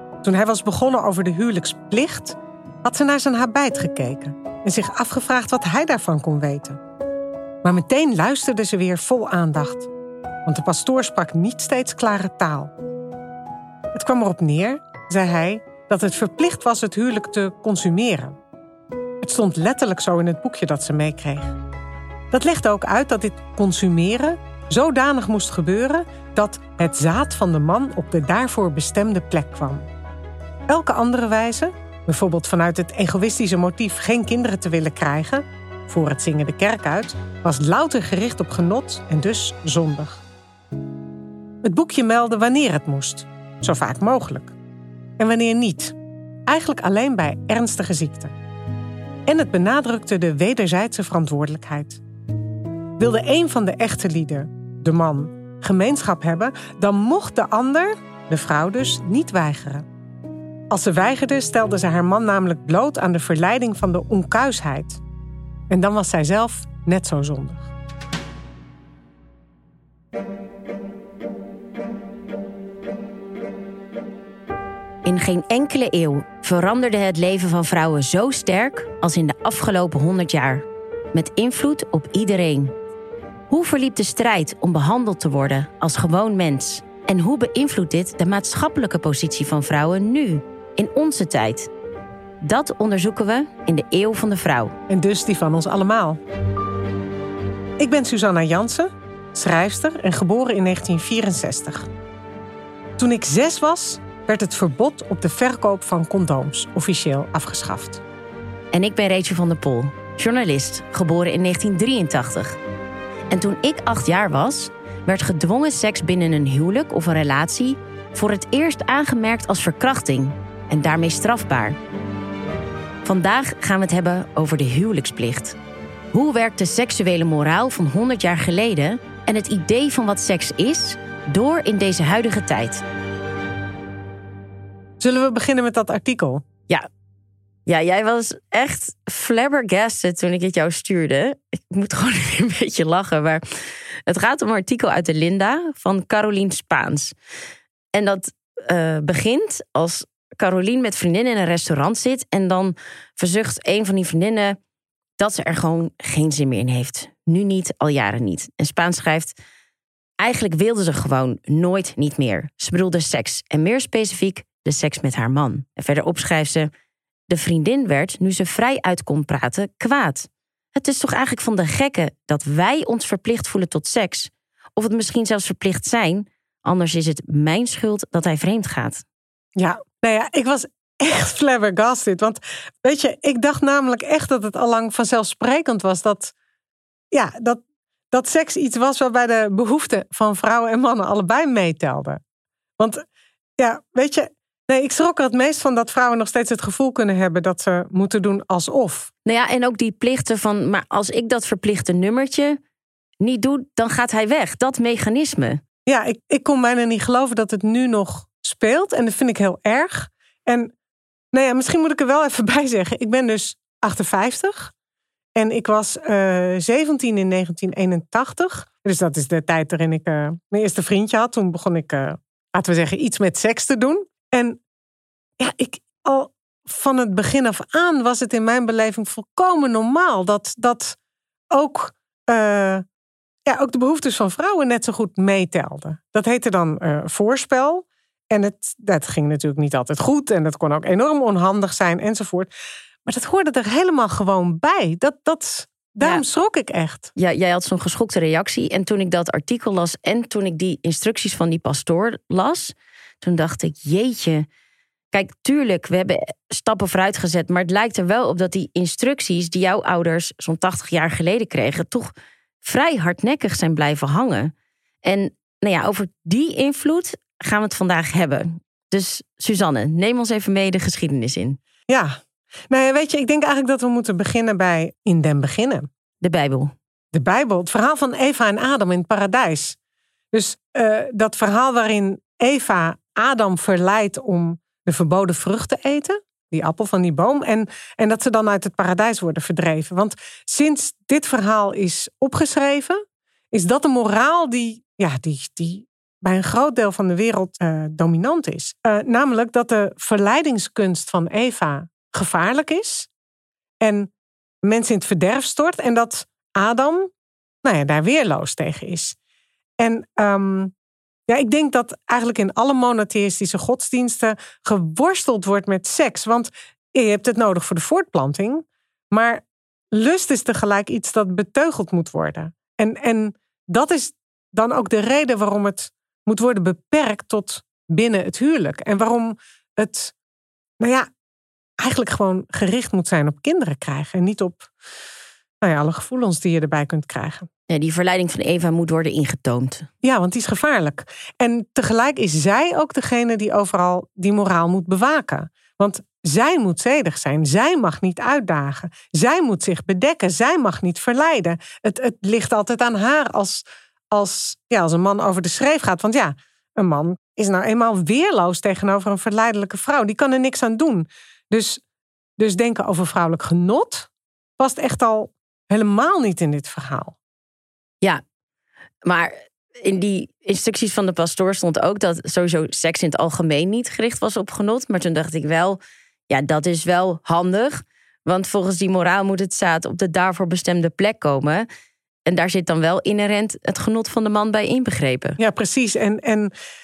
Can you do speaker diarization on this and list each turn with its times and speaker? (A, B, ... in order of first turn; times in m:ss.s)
0:00.2-0:06.8 A
0:07.6-0:09.9 A
0:10.4-0:12.7 A
0:13.9-0:18.4 A
0:19.2-0:21.5 A
0:22.3-0:29.9 A
0:30.7-0:40.2 A
0:41.6-0:44.5 A
0:45.2-0:45.9 A
0:46.5-0:48.3 A
0:49.3-0:52.0 A
0:53.0-0:59.9 A
1:00.7-1:05.0 A
1:05.7-1:07.7 A
1:15.0-1:22.7 B
1:23.5-1:31.7 B
1:32.4-1:34.8 B
1:34.9-1:36.2 A
1:37.8-1:41.9 A
1:43.0-1:48.0 A
1:48.7-1:52.6 B
1:53.3-2:01.8 B
2:03.0-2:05.6 B
2:06.1-2:12.8 B
2:15.0-2:16.4 A
2:17.6-2:27.1 B
2:27.9-2:34.6 B
2:35.2-2:39.4 B
2:40.2-2:46.7 B
2:47.3-2:59.0 B
2:59.6-3:06.3 A
3:07.1-3:12.2 A
3:12.8-3:13.0 A
3:13.6-3:19.1 A
3:19.2-3:22.6 B
3:23.2-3:25.6 B
3:25.9-3:30.7 A
3:31.3-3:34.7 A
3:35.4-3:44.6 A
3:45.4-3:51.0 A
3:51.5-3:52.8 A
3:53.5-4:02.5 A
4:03.0-4:07.1 A
4:07.2-4:14.5 B
4:15.1-4:22.1 B
4:22.6-4:24.5 B
4:25.0-4:31.6 B
4:31.9-4:32.2 A
4:32.7-4:35.9 A
4:36.2-4:36.7 B
4:37.1-4:39.8 A
4:40.3-4:53.0 A
4:53.5-5:03.1 A
5:03.8-5:04.1 A
5:04.6-5:07.1 A
5:07.6-5:09.2 A
5:09.8-5:10.7 A
5:11.3-5:30.1 A
5:30.8-5:31.1 A
5:31.8-5:34.7 A
5:35.6-5:37.5 A
5:37.7-5:39.9 B
5:40.0-6:01.8 A
6:02.4-6:07.2 A
6:09.0-6:21.7 B
6:22.2-6:25.4 B
6:25.4-6:26.5 A